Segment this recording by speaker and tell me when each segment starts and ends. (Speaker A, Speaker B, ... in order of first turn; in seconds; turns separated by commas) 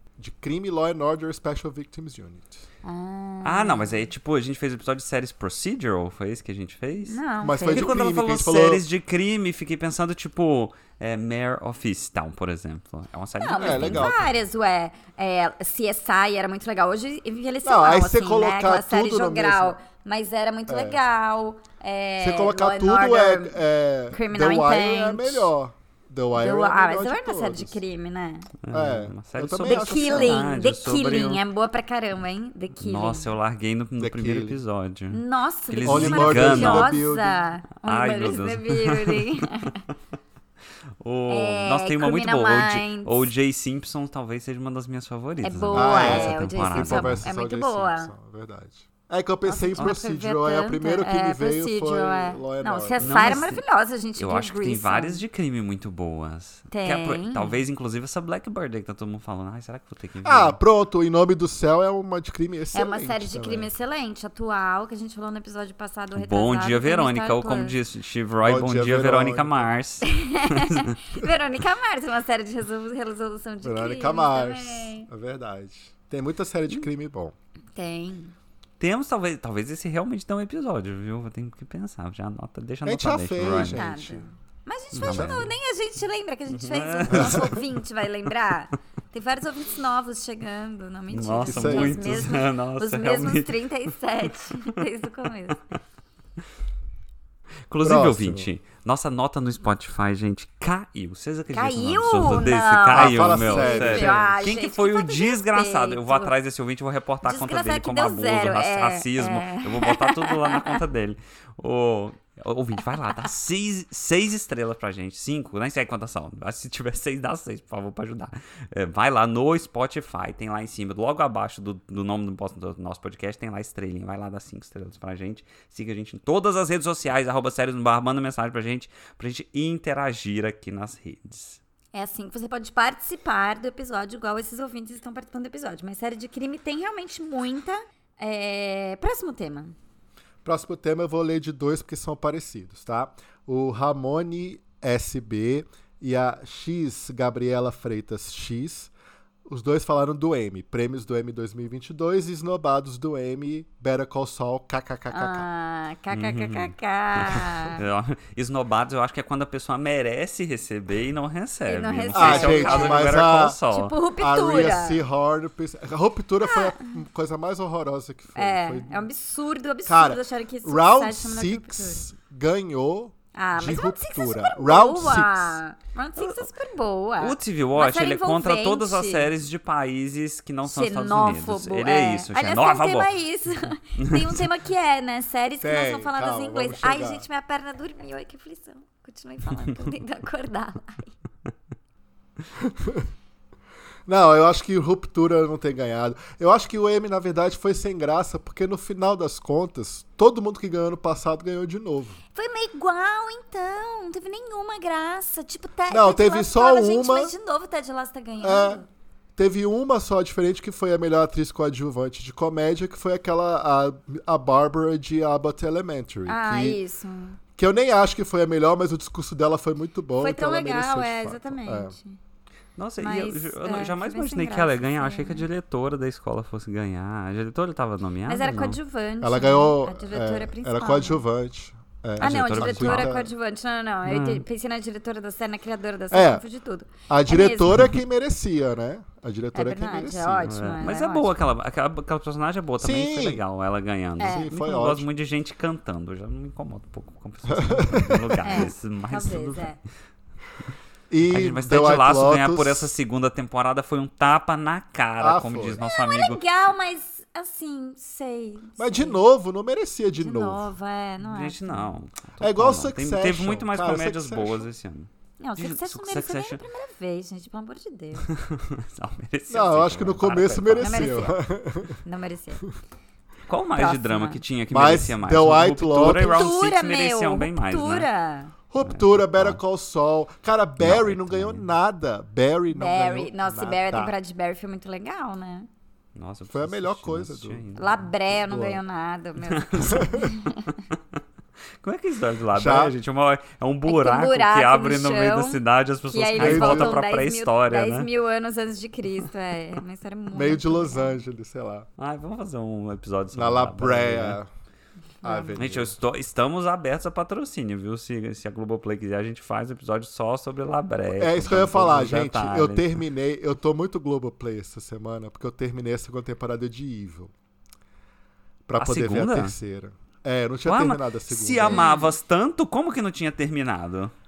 Speaker A: 0.2-2.6, Speaker B: 2.8-4.0, Speaker C: 3.4-14.3, Speaker B: 7.1-8.0, Speaker A: 7.4-8.8, Speaker B: 13.4-23.6, Speaker A: 13.6-14.2, Speaker A: 17.6-19.8, Speaker A: 20.7-21.0, Speaker A: 22.2-27.8, Speaker B: 24.1-25.5, Speaker B: 26.4-28.5, Speaker C: 28.6-31.4, Speaker A: 28.7-30.5, Speaker B: 29.6-33.3, Speaker C: 32.8-36.9, Speaker A: 34.0-34.6, Speaker B: 35.1-39.8, Speaker A: 35.8-37.4, Speaker C: 37.8-39.4, Speaker C: 41.0-47.2, Speaker B: 41.3-43.3, Speaker B: 45.4-48.1, Speaker A: 45.7-53.5, Speaker B: 49.4-55.2, Speaker C: 53.0-53.6, Speaker C: 54.2-60.6, Speaker B: 56.7-57.6, Speaker A: 60.2-63.7, Speaker B: 62.7-67.7, Speaker C: 66.2-71.0, Speaker A: 68.4-69.7, Speaker B: 70.0-75.1, Speaker A: 73.6-77.3, Speaker B: 77.8-78.3, Speaker C: 78.8-83.9, Speaker A: 82.8-84.2, Speaker B: 83.6-95.6, Speaker C: 84.9-85.5, Speaker A: 85.0-85.5, Speaker C: 86.5-87.6, Speaker A: 87.1-87.6, Speaker C: 91.1-93.6, Speaker A: 91.5-92.3, Speaker C: 97.7-131.6, Speaker A: 97.8-98.5, Speaker B: 101.5-106.3, Speaker A: 102.9-104.4, Speaker B: 107.2-110.8, Speaker B: 131.9-139.7, Speaker A: 140.4-148.9, Speaker A: 149.5-155.4, Speaker B: 155.1-157.8, Speaker C: 156.1-163.9, Speaker B: 161.7-163.2, Speaker A: 162.1-163.6, Speaker B: 163.7-165.0, Speaker A: 164.2-169.0, Speaker B: 166.4-166.8, Speaker B: 168.3-172.1, Speaker A: 169.8-175.6, Speaker B: 173.3-179.3, Speaker C: 177.2-183.1, Speaker B: 180.6-191.1, Speaker C: 184.0-184.4, Speaker A: 185.6-187.2, Speaker A: 192.6-193.1, Speaker A: 194.1-202.2, Speaker B: 202.3-208.9, Speaker A: 205.9-207.3, Speaker A: 208.4-208.8, Speaker A: 209.4-216.8, Speaker B: 216.2-217.4, Speaker A: 217.6-221.9, Speaker B: 220.2-222.2, Speaker C: 222.8-228.8, Speaker B: 223.0-225.4, Speaker B: 228.3-231.2, Speaker A: 229.2-233.3, Speaker C: 232.2-233.1, Speaker B: 232.2-237.9, Speaker C: 234.1-234.4, Speaker A: 236.1-236.4, Speaker A: 237.1-240.6, Speaker B: 239.5-241.3, Speaker C: 240.5-249.7, Speaker A: 242.8-243.4, Speaker B: 244.2-244.5, Speaker A: 244.2-245.1, Speaker A: 247.5-248.7, Speaker B: 248.4-249.8, Speaker A: 251.1-252.9, Speaker C: 251.3-256.4, Speaker A: 255.2-255.8, Speaker B: 255.8-259.2, Speaker A: 258.8-260.7, Speaker B: 260.1-261.9, Speaker C: 261.2-266.6, Speaker A: 262.4-264.7, Speaker B: 265.4-268.3, Speaker C: 268.2-271.2, Speaker A: 269.5-272.0, Speaker B: 270.8-271.4, Speaker B: 272.0-272.6, Speaker C: 273.5-278.1, Speaker B: 273.8-274.4, Speaker A: 274.7-276.6, Speaker B: 276.0-278.5, Speaker A: 278.7-284.1, Speaker C: 278.8-279.6, Speaker C: 280.8-281.7, Speaker B: 282.7-285.7, Speaker C: 286.1-288.0, Speaker A: 286.5-287.6, Speaker B: 287.8-290.8, Speaker A: 288.3-288.8, Speaker C: 289.5-290.3, Speaker A: 289.9-290.2, Speaker C: 291.8-298.1, Speaker A: 292.5-292.9, Speaker B: 293.9-301.2, Speaker A: 296.4-297.0, Speaker A: 300.3-301.9, Speaker C: 302.0-304.4, Speaker A: 303.3-304.5, Speaker B: 305.2-305.6, Speaker A: 305.2-305.9, Speaker C: 305.6-313.0, Speaker A: 311.1-317.3, Speaker A: 318.7-321.9, Speaker C: 318.8-319.5, Speaker C: 320.6-324.1, Speaker B: 321.6-322.1